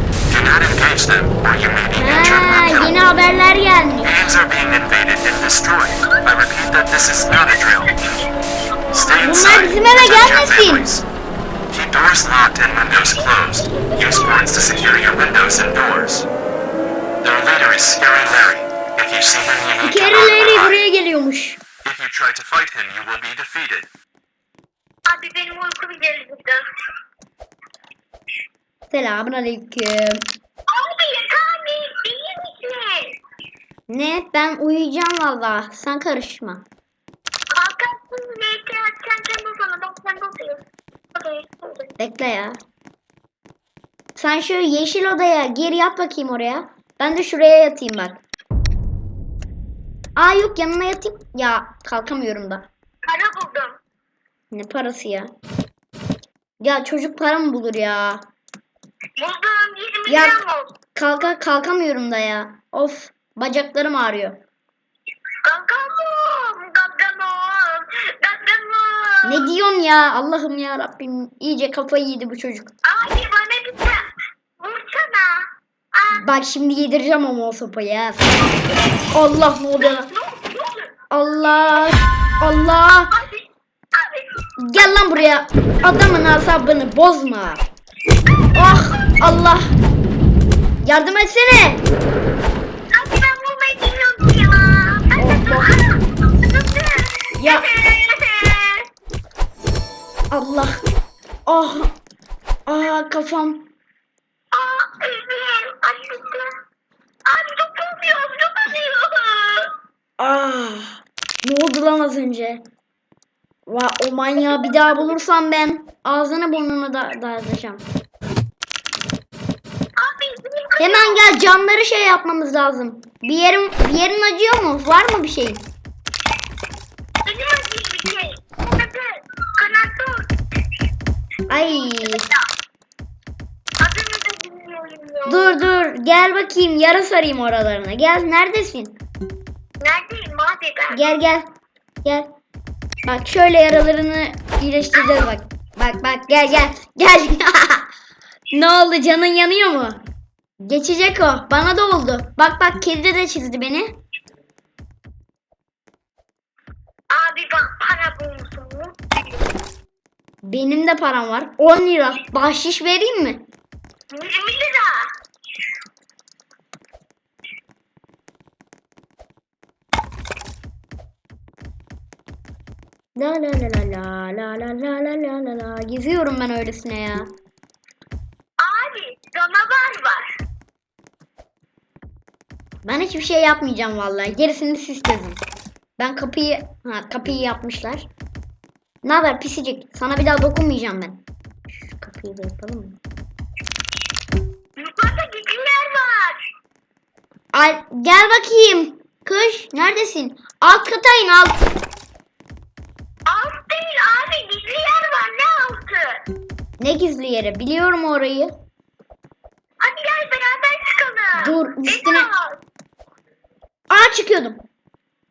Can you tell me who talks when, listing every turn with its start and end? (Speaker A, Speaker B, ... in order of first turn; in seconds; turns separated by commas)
Speaker A: 0.3-3.0, Speaker B: 1.9-4.1, Speaker A: 4.0-8.0, Speaker C: 7.4-9.3, Speaker A: 8.9-11.1, Speaker B: 9.2-10.9, Speaker A: 11.7-16.3, Speaker C: 13.0-15.0, Speaker A: 17.2-20.8, Speaker B: 19.8-21.6, Speaker A: 21.8-23.9, Speaker C: 25.1-26.6, Speaker B: 28.9-30.2, Speaker C: 30.7-33.2, Speaker B: 33.9-36.6, Speaker C: 37.5-40.6, Speaker C: 41.1-41.9, Speaker B: 42.0-42.6, Speaker B: 44.2-48.2, Speaker B: 50.2-52.7, Speaker C: 53.0-53.8, Speaker B: 54.5-55.3, Speaker B: 56.6-58.2, Speaker C: 59.2-60.7, Speaker B: 60.1-60.4, Speaker B: 61.0-64.4, Speaker C: 65.5-69.5, Speaker B: 69.2-72.7, Speaker C: 72.8-74.1, Speaker C: 74.6-76.2, Speaker B: 76.1-78.3, Speaker B: 79.1-80.1, Speaker C: 79.8-80.9, Speaker B: 81.1-83.1, Speaker C: 83.1-86.1, Speaker B: 84.6-87.6, Speaker C: 88.3-89.2, Speaker B: 88.5-89.7, Speaker B: 90.8-91.8, Speaker C: 92.9-98.9, Speaker B: 95.2-95.7, Speaker B: 97.4-97.7, Speaker B: 100.3-100.8, Speaker B: 101.5-102.0, Speaker B: 102.7-103.7, Speaker C: 104.5-106.6, Speaker C: 107.3-109.7, Speaker B: 110.2-112.6, Speaker B: 113.7-117.9, Speaker C: 114.4-115.1, Speaker C: 120.0-121.2, Speaker B: 120.8-125.7, Speaker C: 127.2-130.3, Speaker B: 131.5-132.3, Speaker C: 131.7-132.4, Speaker C: 133.8-135.7, Speaker B: 135.3-139.0, Speaker C: 139.8-141.0, Speaker B: 140.9-141.5, Speaker B: 143.0-147.9, Speaker C: 144.9-145.3, Speaker B: 148.5-150.0, Speaker B: 150.6-154.0, Speaker C: 157.1-159.0, Speaker B: 160.4-163.4, Speaker C: 164.1-165.1, Speaker B: 173.2-177.3, Speaker C: 178.6-180.3, Speaker B: 182.8-185.4, Speaker B: 186.0-188.1, Speaker B: 189.0-193.0, Speaker C: 194.8-196.4, Speaker B: 197.5-201.7, Speaker C: 203.3-206.2, Speaker B: 206.8-208.5, Speaker C: 209.8-212.6, Speaker B: 211.4-212.3, Speaker B: 213.9-214.6